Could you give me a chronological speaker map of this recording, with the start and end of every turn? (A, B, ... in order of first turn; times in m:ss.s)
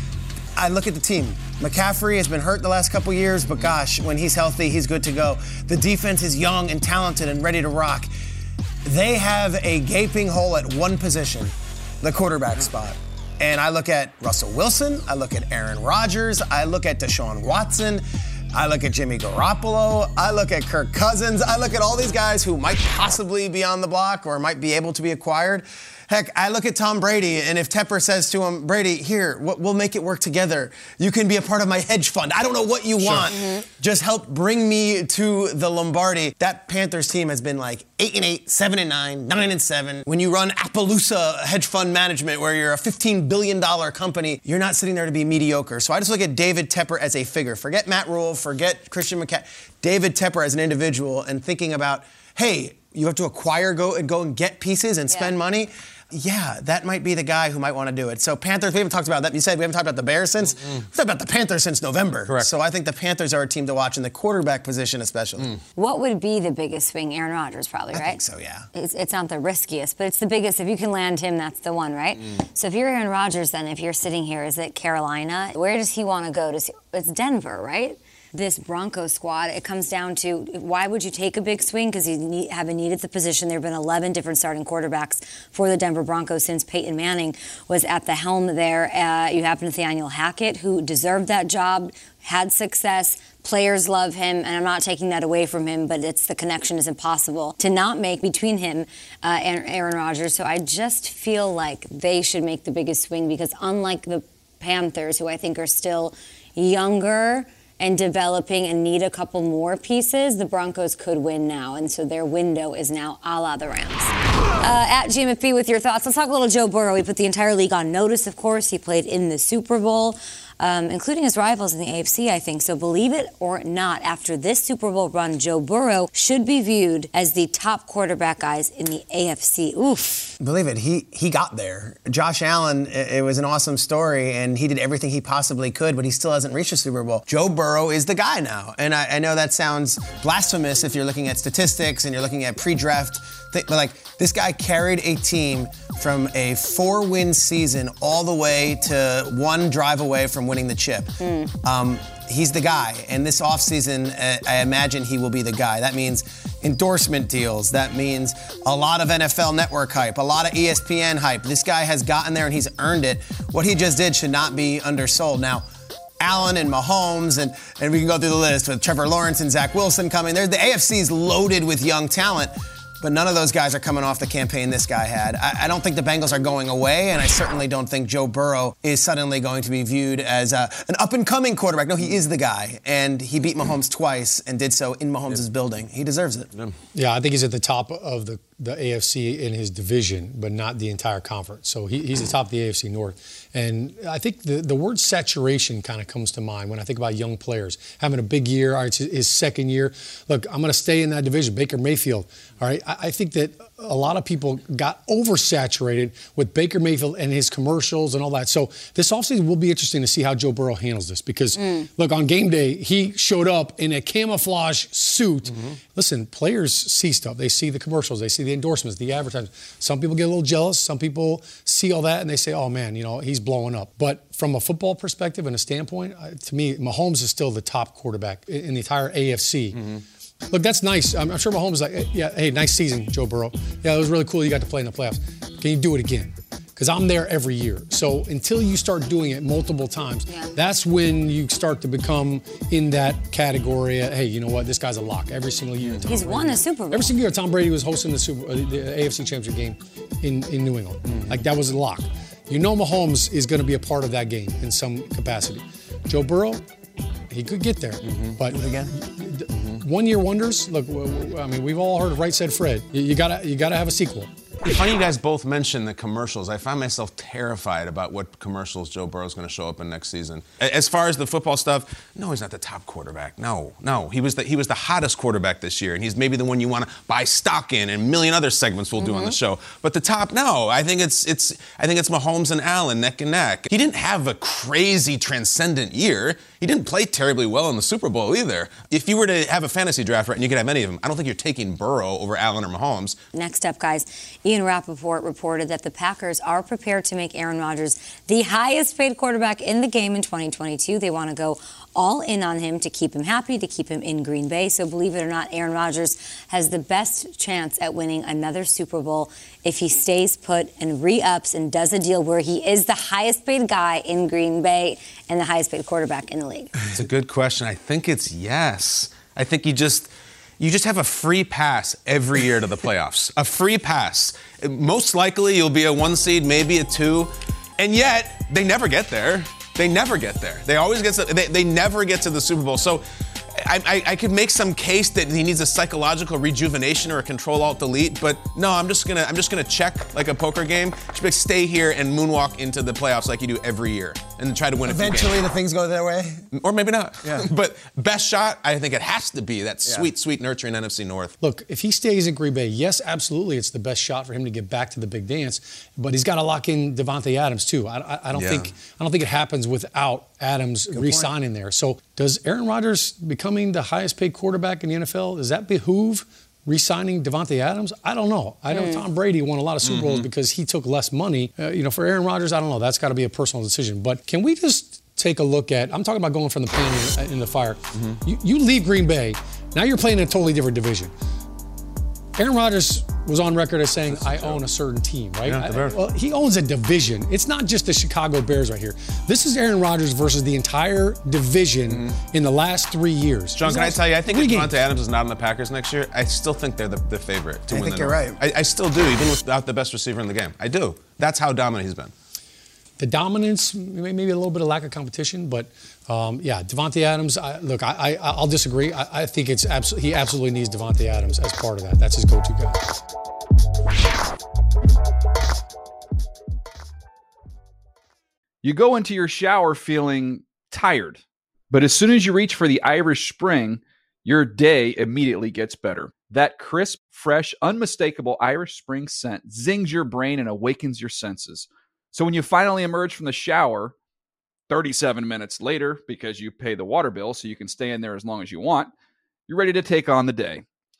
0:00.6-0:08.1 A
0:08.8-1:05.5 A
0:33.0-0:33.3 B
0:33.3-0:33.6 C
1:05.8-1:08.2 C
1:07.9-1:08.7 A
1:08.7-2:10.3 C
2:10.4-2:45.6 A
2:31.2-2:31.5 C
2:46.2-3:06.5 A
3:06.9-3:49.8 D
3:31.6-3:31.9 C
3:35.5-3:35.8 B
3:49.7-3:50.0 B
3:50.5-4:16.6 D
4:00.3-4:00.5 C
4:06.1-4:07.1 C
4:11.1-4:11.3 B
4:17.3-4:24.3 D
4:18.1-4:18.4 B
4:18.5-4:18.9 A
4:24.6-4:53.2 B
4:39.0-4:39.4 C
4:53.3-5:16.7 C
5:16.9-5:33.0 B
5:33.6-5:45.4 B
5:44.8-5:46.4 A
5:46.5-5:51.3 B
5:47.2-5:47.5 A
5:49.8-5:50.1 A
5:51.4-6:21.1 D
5:58.3-5:58.7 B
6:00.9-6:01.3 A
6:08.7-6:09.0 C
6:09.8-6:10.3 B
6:17.9-6:18.2 B
6:22.4-6:34.7 D
6:24.1-6:24.6 B
6:25.4-6:26.0 B
6:31.9-6:32.2 B
6:33.5-6:42.1 B
6:37.7-6:38.4 A
6:43.0-6:52.8 D
6:58.6-7:13.9 E
7:14.7-7:18.9 E
7:19.5-7:20.6 E